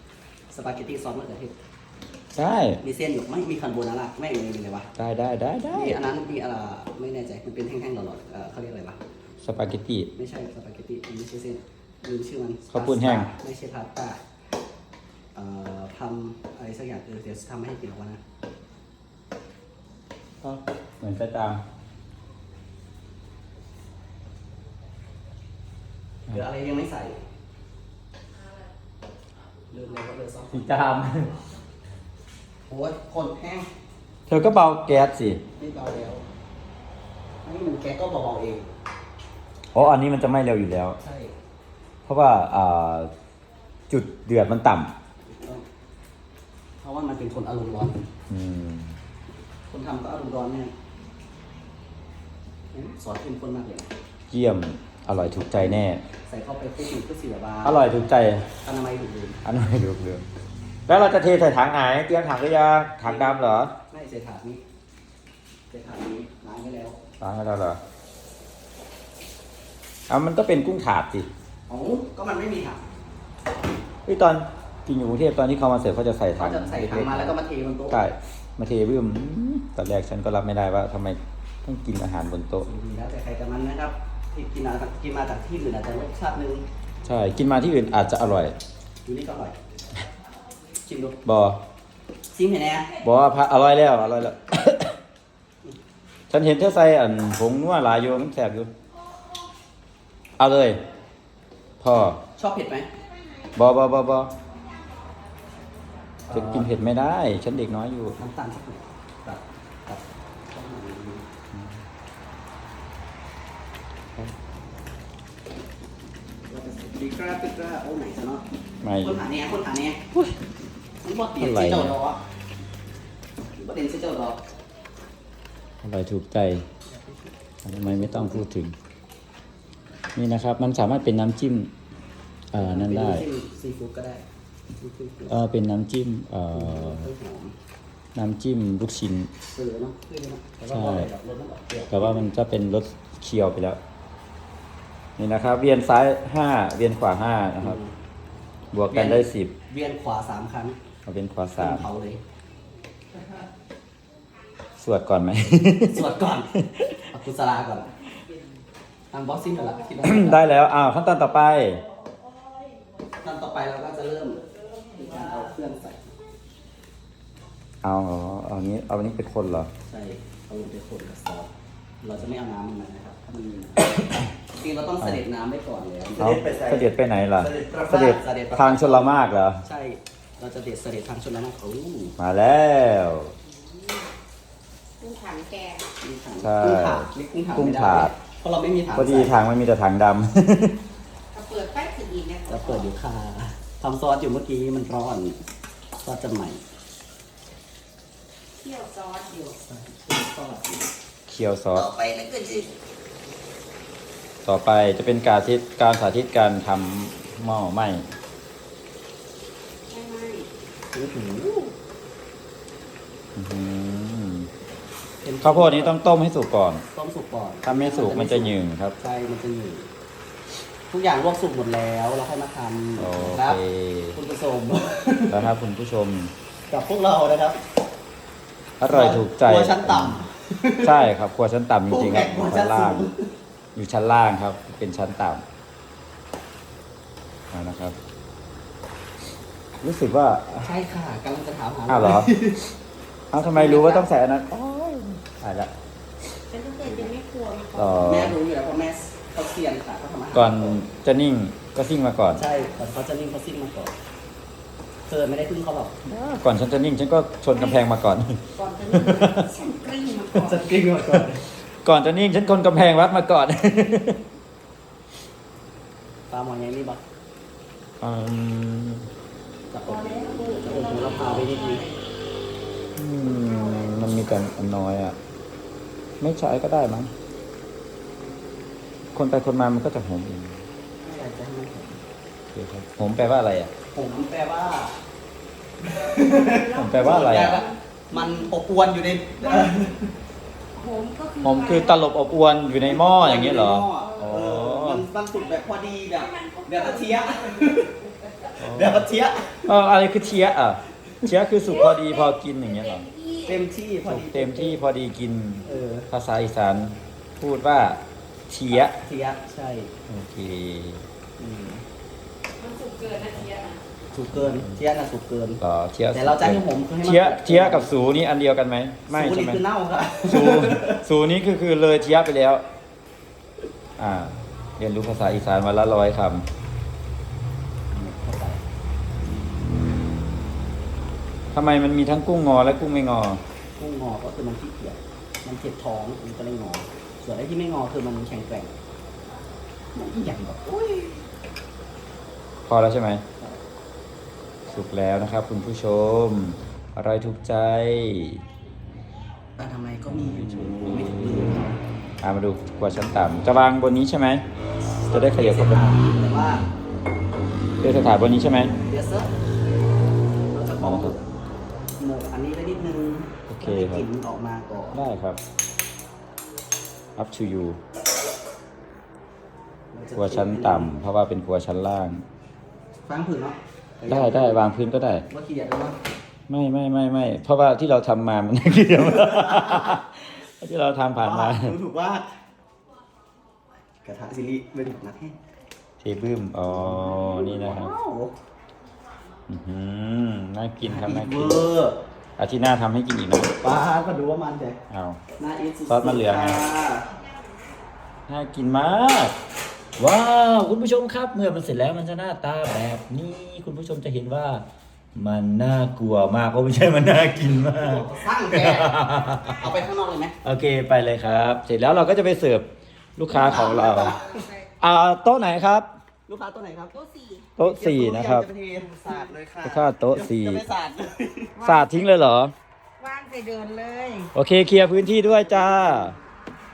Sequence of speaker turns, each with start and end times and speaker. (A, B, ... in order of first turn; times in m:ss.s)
0:00.5-0:01.5 A
0:02.4-0:02.8 B
0:02.8-0:04.9 A
0:05.0-0:06.0 B
0:05.7-0:09.0 A
0:09.4-0:10.1 B
0:10.2-0:14.2 A
0:12.7-0:13.3 B
0:15.4-0:18.2 A
0:20.4-0:21.6 B
0:26.3-0:27.2 A
0:29.7-0:30.7 A
0:30.5-0:31.3 B
0:32.7-0:33.7 A
0:34.3-0:35.4 B
0:35.6-0:36.2 A
0:37.4-0:38.7 A
0:39.7-0:41.0 B
0:41.0-0:41.3 A
0:42.1-0:43.1 B
0:43.9-0:44.9 B
0:45.3-0:45.6 A
0:46.8-0:48.0 A
0:48.3-0:49.0 B
0:49.7-0:50.7 A
0:52.7-0:53.9 A
0:54.3-0:56.0 B
0:55.2-0:57.8 A
0:57.6-0:58.5 B
0:58.6-0:59.4 A
0:59.4-1:00.2 B
1:00.9-1:03.7 B
1:03.0-1:04.6 A
1:05.7-1:07.0 A
1:07.2-1:07.8 B
1:10.1-1:11.3 B
1:11.7-1:12.8 A
1:14.1-1:17.4 B
1:16.4-1:18.0 A
1:17.9-1:22.7 B
1:22.6-1:26.6 A
1:27.0-1:28.6 B
1:29.1-1:29.6 A
1:30.8-1:31.2 A
1:31.2-1:31.6 B
1:32.3-1:32.9 A
1:33.0-1:35.0 B
1:36.3-1:38.7 B
1:40.4-1:40.8 B
1:41.8-1:42.2 B
1:42.4-1:42.9 A
1:43.6-1:44.3 B
1:46.3-1:46.8 A
1:46.3-1:48.2 B
1:48.2-1:51.3 A
1:56.5-1:58.4 A
1:58.8-1:59.2 B
1:59.0-2:00.0 A
2:01.0-2:02.2 A
2:01.4-2:02.0 B
2:03.6-2:04.4 A
2:05.8-2:06.7 B
2:06.9-2:08.4 A
2:07.6-2:08.8 B
2:10.2-2:11.7 B
2:12.5-2:13.2 B
2:12.5-2:14.2 A
2:14.8-2:15.4 A
2:15.3-2:17.1 B
2:16.5-2:17.6 A
2:18.2-2:19.3 B
2:19.5-2:22.3 A
2:20.7-2:21.1 B
2:21.9-2:23.8 B
2:25.2-2:27.8 B
2:27.6-2:27.9 A
2:28.7-2:29.5 B
2:28.9-2:30.8 A
2:31.0-2:31.9 B
2:31.6-2:32.2 A
2:34.8-2:36.9 B
2:35.9-2:36.5 A
2:37.1-2:37.9 A
2:39.1-2:40.5 A
2:40.0-2:41.8 B
2:43.2-2:44.4 A
2:44.9-2:46.1 A
2:47.8-2:49.7 B
2:49.9-2:51.5 A
2:52.0-2:56.9 A
2:56.2-2:59.6 B
2:57.4-3:02.2 A
3:02.2-3:03.3 B
3:03.5-3:04.1 C
3:05.0-3:05.9 C
3:06.0-3:09.4 A
3:06.4-3:08.1 B
3:09.0-3:10.8 B
3:11.3-3:12.9 C
3:12.5-3:15.4 A
3:16.0-3:16.6 A
3:18.6-3:19.6 C
3:19.6-3:20.9 A
3:21.3-3:21.9 B
3:21.8-3:22.7 C
3:24.4-3:28.0 B
3:29.9-3:30.5 C
3:30.9-3:31.8 A
3:33.4-3:34.5 B
3:35.2-3:36.0 A
3:35.4-3:36.8 B
3:36.9-3:39.9 A
3:37.6-3:39.0 B
3:40.9-3:43.6 A
3:43.0-3:44.2 B
3:44.2-3:45.5 A
3:45.3-3:46.3 B
3:46.7-3:47.6 A
3:48.8-3:50.2 B
3:48.9-3:51.1 A
3:50.8-3:53.1 B
3:51.9-3:53.3 A
3:53.8-3:55.4 B
3:57.5-3:58.0 B
3:59.8-4:00.7 B
4:00.6-4:02.7 A
4:01.9-4:02.3 B
4:03.3-4:05.7 B
4:03.3-4:04.1 A
4:06.5-4:08.0 C
4:06.9-4:07.1 A
4:07.8-4:08.4 B
4:08.0-4:10.8 A
4:10.3-4:12.4 B
4:12.4-4:13.9 A
4:15.1-4:16.0 A
4:16.0-4:19.5 B
4:18.6-4:20.6 C
4:20.3-4:21.4 A
4:21.8-4:24.2 B
4:26.3-4:27.0 A
4:28.0-4:29.1 B
4:29.7-4:31.8 A
4:29.8-4:32.0 C
4:33.0-4:35.2 B
4:36.2-4:37.1 B
4:39.1-4:40.6 B
4:41.0-4:42.0 A
4:42.5-4:43.7 B
4:43.9-4:44.9 A
4:45.8-4:50.1 A
4:46.4-4:48.5 C
4:46.7-4:47.6 B
4:49.4-4:49.8 C
4:50.7-4:52.0 C
4:51.4-4:55.1 B
4:52.8-4:58.0 A
4:54.0-4:54.4 C
4:56.1-4:58.5 C
4:58.6-4:59.7 A
4:58.6-4:59.1 B
4:59.7-5:03.1 B
5:01.8-5:03.6 C
5:03.4-5:04.8 A
5:04.0-5:09.0 B
5:05.6-5:06.1 A
5:08.7-5:09.9 A
5:10.1-5:11.0 B
5:11.4-5:11.8 A
5:12.6-5:13.8 C
5:14.1-5:15.6 A
5:14.3-5:14.8 B
5:15.6-5:19.6 B
5:16.1-5:17.9 A
5:19.1-5:21.0 A
5:20.3-5:22.6 B
5:24.0-5:26.5 B
5:27.9-5:28.6 A
5:31.5-5:33.4 B
5:33.8-5:38.7 A
5:39.9-5:41.2 A
5:42.7-5:43.2 B
5:44.7-5:48.4 B
5:49.6-5:51.8 A
5:52.2-5:54.4 B
5:55.0-5:56.6 A
5:55.1-5:56.0 B
5:57.8-5:58.7 B
5:58.8-5:59.3 A
6:00.5-6:01.3 A
6:00.8-6:01.2 B
6:02.0-6:05.0 A
6:03.5-6:04.0 B
6:04.9-6:05.4 B
6:07.2-6:07.8 B
6:09.9-6:11.0 A
6:10.2-6:12.2 B
6:13.1-6:14.7 A
6:14.1-6:15.3 B
6:15.3-6:16.0 A
6:16.5-6:21.8 B
6:19.4-6:20.0 A
6:21.2-6:22.3 A
6:24.0-6:25.4 A
6:26.0-6:27.9 B
6:26.7-6:28.3 A
6:29.5-6:31.6 B
6:30.8-6:32.0 A
6:32.4-6:33.5 B
6:33.6-6:34.8 A
6:34.9-6:35.2 B
6:35.4-6:37.1 A
6:35.9-6:36.7 B
6:38.3-6:39.4 B
6:40.0-6:44.6 B
6:45.1-6:49.7 B
6:47.6-6:50.4 A
6:50.4-6:52.7 B
6:53.2-6:54.2 B
6:53.3-6:54.5 A
6:54.3-6:54.6 C
6:54.8-6:55.9 B
6:56.3-6:57.0 A
6:57.0-6:57.5 C
6:57.6-6:58.5 B
6:57.6-7:01.6 A
6:59.6-7:00.6 B
7:01.6-7:02.0 C
7:01.6-7:02.5 B
7:03.0-7:04.3 C
7:04.3-7:06.1 B
7:05.1-7:06.2 A